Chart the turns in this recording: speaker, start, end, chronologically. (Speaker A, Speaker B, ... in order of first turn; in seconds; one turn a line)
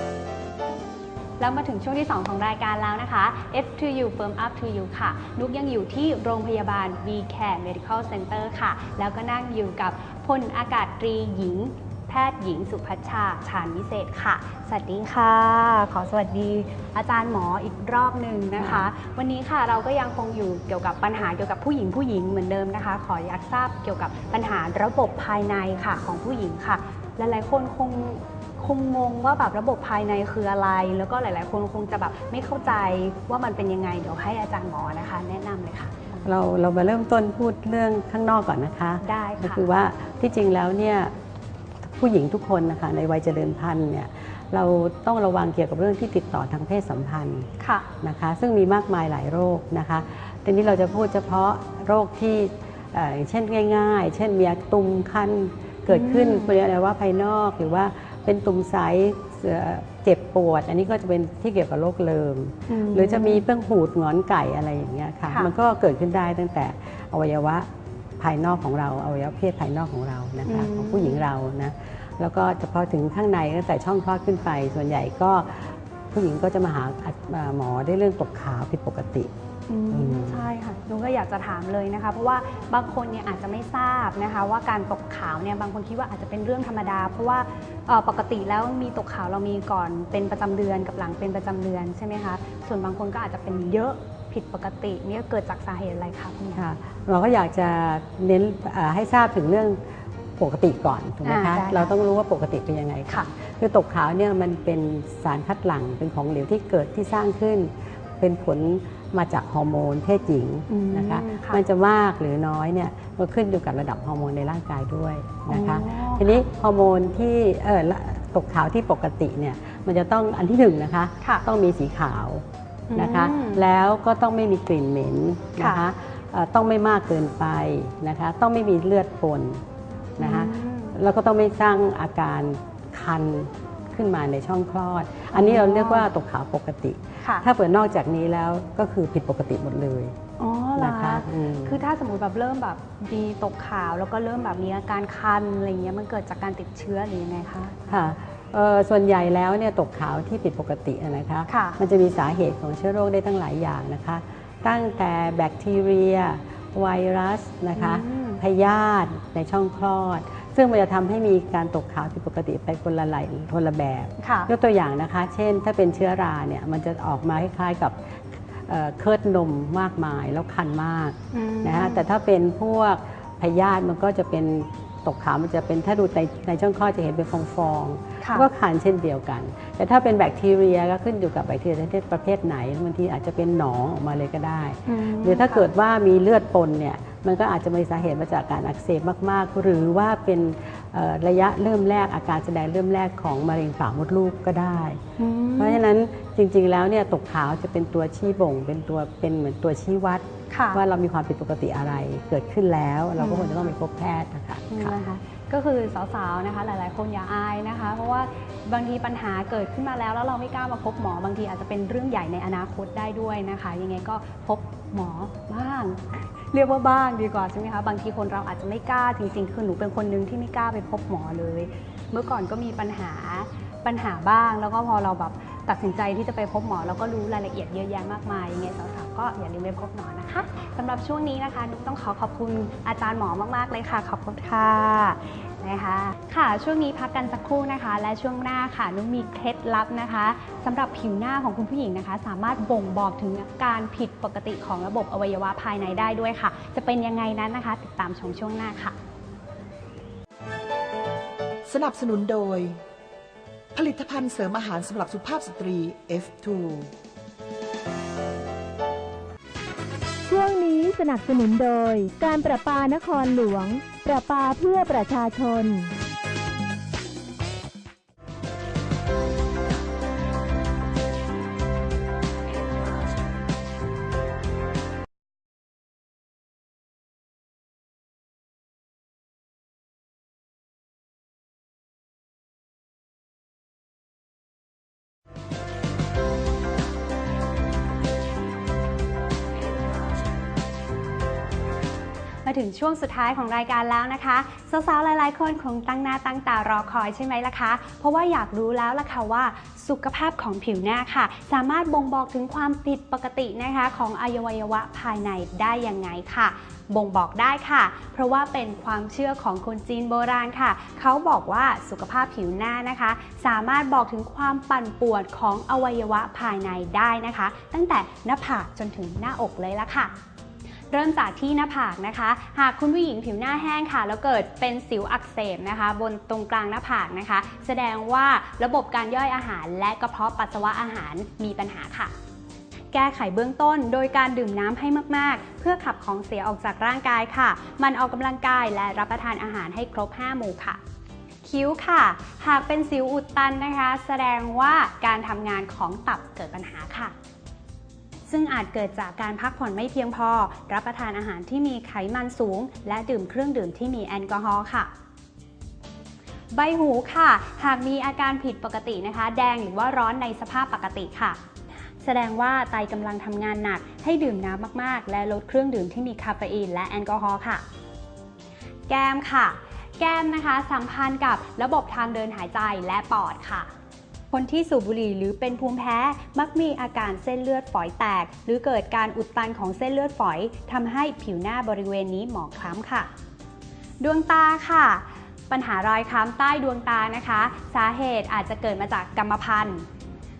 Speaker A: 1.4-36.2
Speaker B: 18.6-18.9
Speaker B: 36.2-41.1
Speaker A: 39.0-39.6
Speaker B: 41.8-47.5
Speaker A: 47.6-47.9
Speaker B: 48.0-67.7
Speaker A: 55.9-56.5
Speaker A: 62.7-63.4
Speaker B: 68.2-79.3
Speaker A: 70.4-71.2
Speaker A: 79.7-96.6
Speaker B: 79.9-80.5
Speaker B: 96.5-99.8
Speaker B: 100.4-129.6
Speaker A: 101.2-101.9
Speaker A: 110.7-111.6
Speaker A: 115.5-116.4
Speaker A: 122.9-123.6
Speaker A: 125.6-125.8
Speaker B: 130.2-140.2
Speaker A: 130.2-130.9
Speaker A: 135.3-136.1
Speaker A: 137.2-137.4
Speaker A: 140.4-147.8
Speaker B: 140.8-141.8
Speaker B: 147.9-195.0
Speaker A: 151.5-151.8
Speaker A: 157.7-158.4
Speaker A: 164.2-164.5
Speaker A: 171.3-172.1
Speaker A: 178.2-178.5
Speaker A: 184.8-185.6
Speaker A: 195.2-195.8
Speaker B: 195.6-205.0
Speaker A: 200.5-200.8
Speaker A: 203.2-203.7
Speaker A: 204.7-248.9
Speaker C: 251.7-252.8
Speaker C: 253.7-256.9
Speaker D: 260.3-265.9
Speaker A: 292.4-320.1
Speaker A: 320.9-332.1
Speaker A: 332.9-340.8
Speaker A: 341.4-347.1
Speaker A: 348.3-354.9
Speaker A: 356.5-361.4
Speaker A: 362.0-367.6
Speaker A: 368.9-373.7
Speaker A: 374.3-383.1
Speaker A: 384.0-389.8